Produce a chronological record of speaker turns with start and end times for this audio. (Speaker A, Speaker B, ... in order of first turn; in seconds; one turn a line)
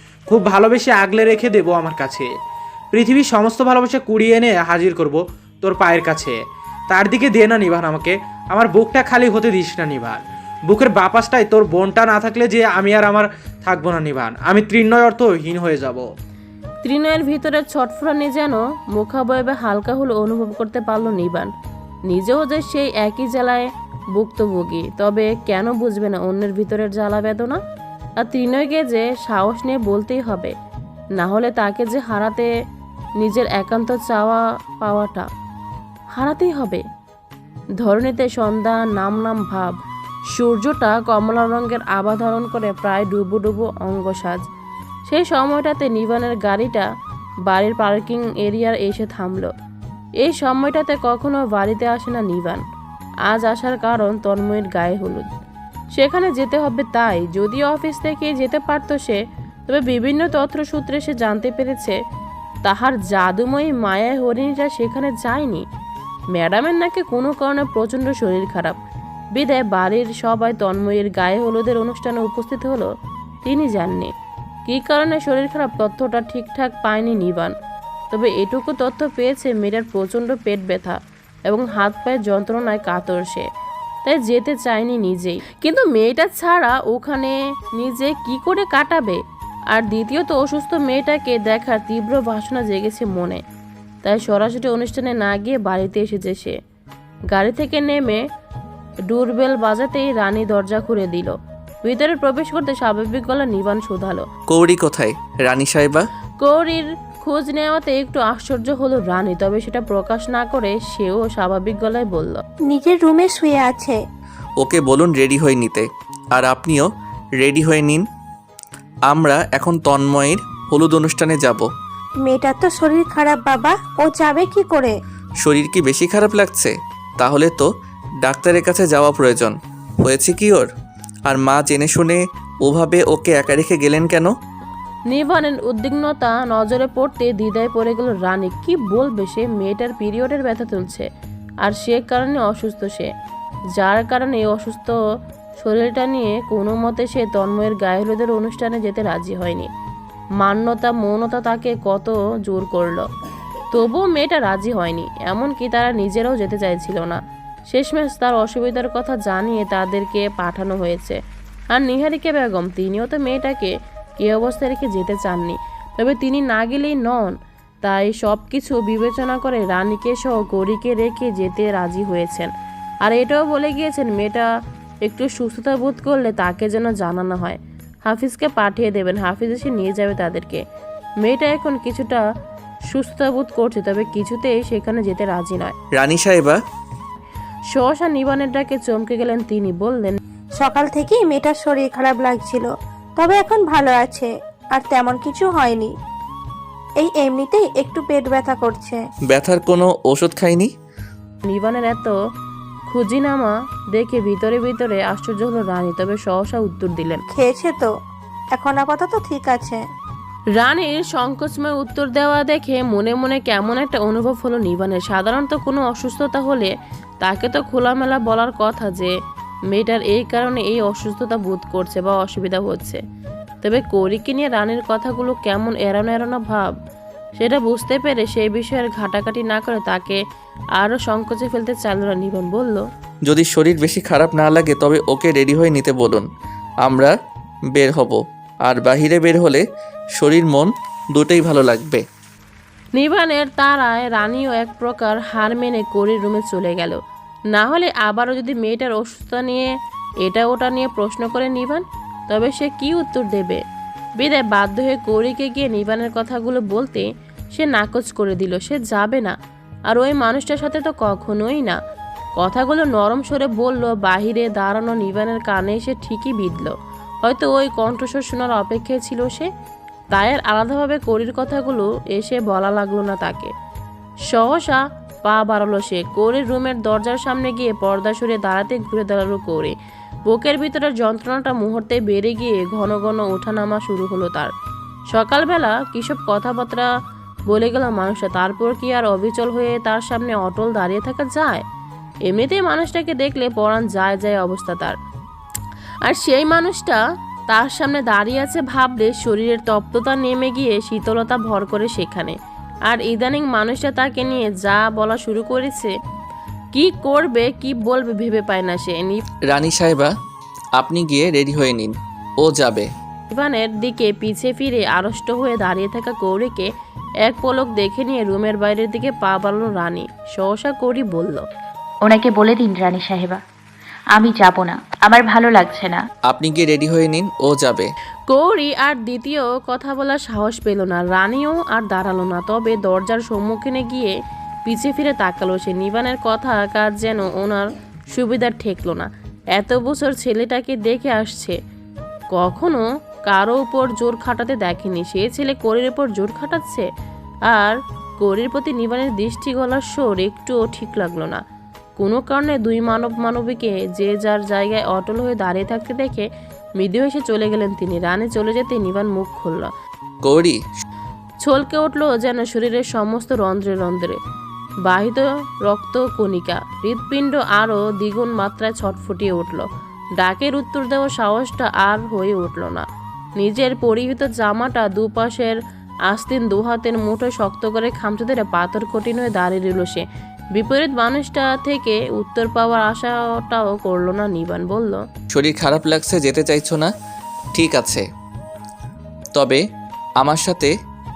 Speaker A: 0.3-2.3
Speaker A: 2.9-6.4
Speaker A: 6.9-16.1
Speaker B: 16.8-21.5
Speaker B: 22.1-27.6
Speaker B: 28.2-30.5
Speaker B: 31.2-32.5
Speaker B: 33.2-35.3
Speaker B: 36.1-36.8
Speaker B: 37.8-39.7
Speaker B: 40.3-44.4
Speaker B: 45.1-46.9
Speaker B: 47.5-49.5
Speaker B: 50.2-52.6
Speaker B: 53.3-55.3
Speaker B: 55.9-62.0
Speaker B: 62.6-65.6
Speaker B: 66.3-68.8
Speaker B: 69.3-72.9
Speaker B: 73.4-74.1
Speaker B: 74.7-77.5
Speaker B: 78.1-81.0
Speaker B: 81.5-83.5
Speaker B: 84.0-89.2
Speaker B: 89.7-93.4
Speaker B: 94.0-96.5
Speaker B: 97.3-98.2
Speaker B: 99.1-104.2
Speaker C: 104.5-106.0
Speaker B: 106.4-112.4
Speaker D: 112.7-114.0
Speaker C: 114.6-116.8
Speaker C: 117.4-118.0
Speaker C: 119.1-121.7
Speaker D: 122.2-124.9
Speaker C: 125.4-127.7
Speaker C: 128.2-130.7
Speaker C: 131.3-134.3
Speaker B: 135.1-141.1
Speaker B: 141.6-143.1
Speaker B: 143.8-144.9
Speaker B: 145.6-149.7
Speaker B: 150.4-153.0
Speaker B: 153.7-161.2
Speaker B: 161.7-172.5
Speaker B: 173.0-174.5
Speaker B: 175.0-180.6
Speaker B: 181.2-182.2
Speaker B: 182.9-185.7
Speaker C: 185.9-186.6
Speaker B: 187.7-190.2
Speaker D: 190.6-195.9
Speaker D: 197.0-199.0
Speaker C: 199.3-200.7
Speaker B: 201.4-202.2
Speaker B: 202.9-207.2
Speaker D: 207.3-207.9
Speaker D: 208.5-209.8
Speaker B: 210.6-216.7
Speaker B: 217.2-219.1
Speaker B: 219.7-223.0
Speaker B: 223.6-226.7
Speaker B: 227.4-230.2
Speaker B: 230.8-232.8
Speaker C: 233.2-236.2
Speaker C: 236.8-237.1
Speaker C: 237.7-239.6
Speaker C: 240.2-242.0
Speaker B: 242.9-247.0
Speaker B: 247.5-249.7
Speaker B: 250.2-253.6
Speaker B: 254.2-259.3
Speaker B: 259.9-261.8
Speaker B: 262.4-266.7
Speaker B: 267.2-269.5
Speaker B: 270.1-273.5
Speaker B: 274.3-279.7
Speaker B: 280.3-284.5
Speaker B: 285.1-286.9
Speaker B: 287.5-291.6
Speaker B: 292.3-294.9
Speaker B: 296.0-302.4
Speaker B: 302.9-305.9
Speaker B: 306.7-309.2
Speaker C: 309.5-310.1
Speaker C: 310.8-312.9
Speaker B: 313.3-316.7
Speaker B: 317.2-321.4
Speaker E: 322.1-323.4
Speaker E: 324.1-326.0
Speaker C: 326.3-327.9
Speaker B: 328.3-334.1
Speaker B: 334.6-341.6
Speaker B: 342.3-346.9
Speaker B: 347.5-351.4
Speaker B: 352.0-356.3
Speaker B: 356.8-359.7
Speaker C: 360.2-360.6
Speaker B: 361.4-364.2
Speaker B: 364.9-369.7
Speaker B: 370.2-372.8
Speaker B: 373.4-375.6
Speaker B: 376.1-385.0
Speaker C: 385.3-386.9
Speaker C: 387.5-388.0
Speaker C: 389.3-389.6
Speaker C: 390.2-390.7